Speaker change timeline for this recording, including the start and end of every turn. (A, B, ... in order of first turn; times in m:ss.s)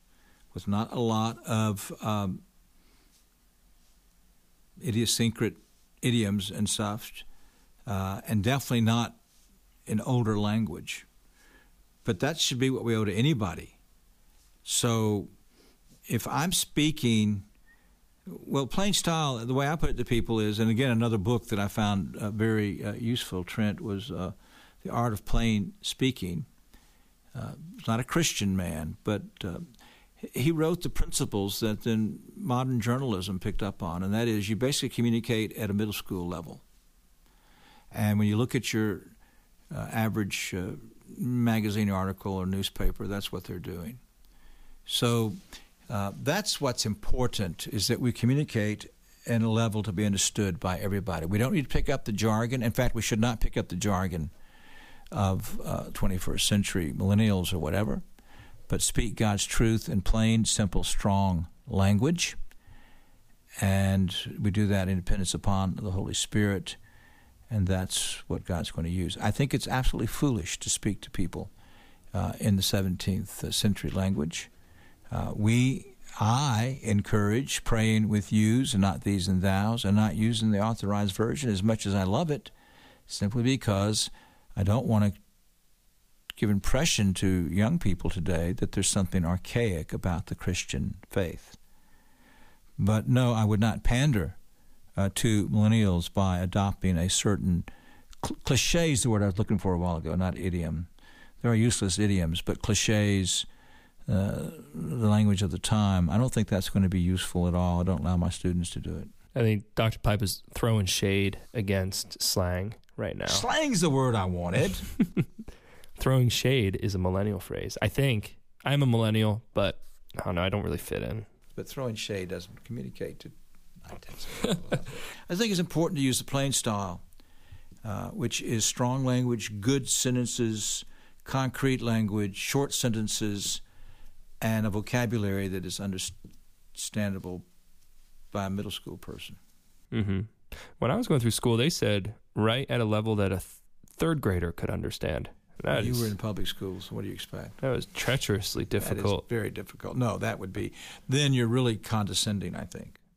0:00.5-0:02.4 A
0:04.8-0:07.2 A
0:07.8-0:09.2 A
0:09.8-0:11.0 A
0:12.0-0:13.8 A
0:14.6-0:15.3 A
0:16.0-0:17.5 A
0:18.2-0:26.5 A
0:27.3-0:29.7 A
0:30.2-0:36.6 A
0:37.9-0:39.1 A
0:39.7-0:44.0 A
0:44.8-0:54.3 A
0:55.1-0:58.0 A
0:58.7-1:02.4 A
1:03.6-1:06.8 A
1:07.5-1:11.5 A
1:12.1-1:14.5 A
1:15.1-1:22.5 A
1:23.1-1:25.1 A
1:26.3-1:31.6 A
1:32.8-1:34.4 A
1:35.0-1:37.7 A
1:38.2-1:40.9 A
1:41.4-1:43.5 A
1:44.1-1:49.1 A
1:49.3-1:53.4 B
1:53.3-1:54.9 A
1:55.0-1:55.2 B
1:56.0-2:01.2 B
2:01.5-2:07.0 A
2:07.8-2:13.6 A
2:14.4-2:16.2 A
2:16.7-2:17.4 A
2:18.3-2:19.4 A
2:19.9-2:26.1 B
2:25.7-2:27.6 A
2:27.6-2:29.2 B
2:28.8-2:33.0 A